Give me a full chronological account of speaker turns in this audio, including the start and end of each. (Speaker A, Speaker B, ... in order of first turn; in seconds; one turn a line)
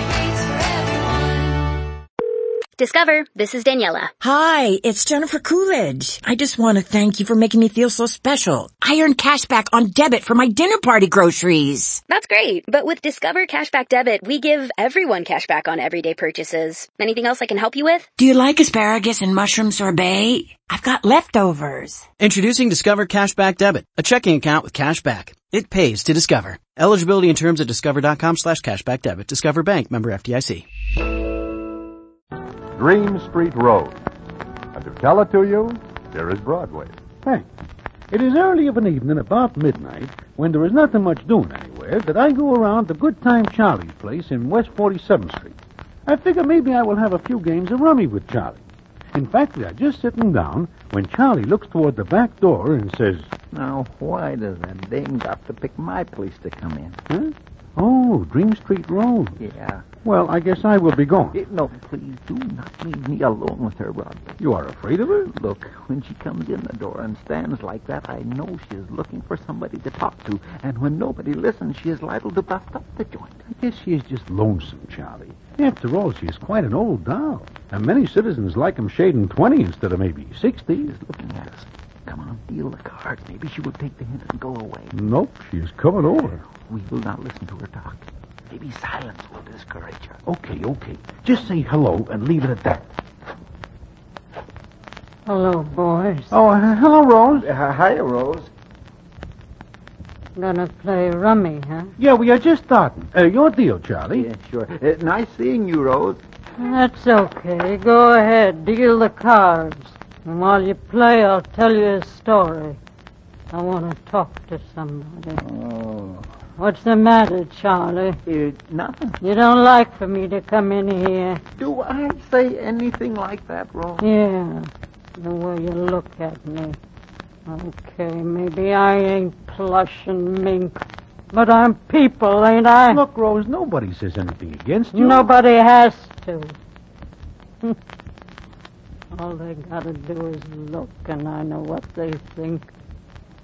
Speaker A: 2.8-4.1
Speaker B: 4.2-12.0
Speaker A: 12.1-18.1
Speaker B: 18.2-22.1
Speaker C: 22.2-30.6
Speaker D: 32.7-34.0
Speaker D: 34.7-37.0
Speaker E: 38.1-48.6
Speaker E: 49.1-53.3
Speaker F: 53.5-57.0
Speaker E: 57.1-59.4
Speaker F: 59.4-59.8
Speaker E: 60.0-61.4
Speaker F: 61.3-64.3
Speaker E: 64.4-65.3
Speaker F: 65.2-73.4
Speaker E: 73.5-80.9
Speaker F: 80.8-85.0
Speaker E: 84.9-86.4
Speaker F: 86.5-90.2
Speaker E: 90.3-92.8
Speaker G: 95.3-96.4
Speaker E: 96.3-97.5
Speaker F: 97.3-98.5
Speaker G: 100.4-101.9
Speaker E: 102.0-104.3
Speaker F: 104.1-106.2
Speaker G: 106.6-112.8
Speaker G: 113.5-115.4
Speaker F: 115.4-116.2
Speaker G: 116.6-118.2
Speaker F: 118.3-119.2
Speaker G: 119.2-121.4
Speaker F: 121.6-124.1
Speaker G: 124.0-126.8
Speaker G: 127.5-133.0
Speaker E: 132.9-135.3
Speaker G: 134.9-136.6
Speaker G: 139.1-142.7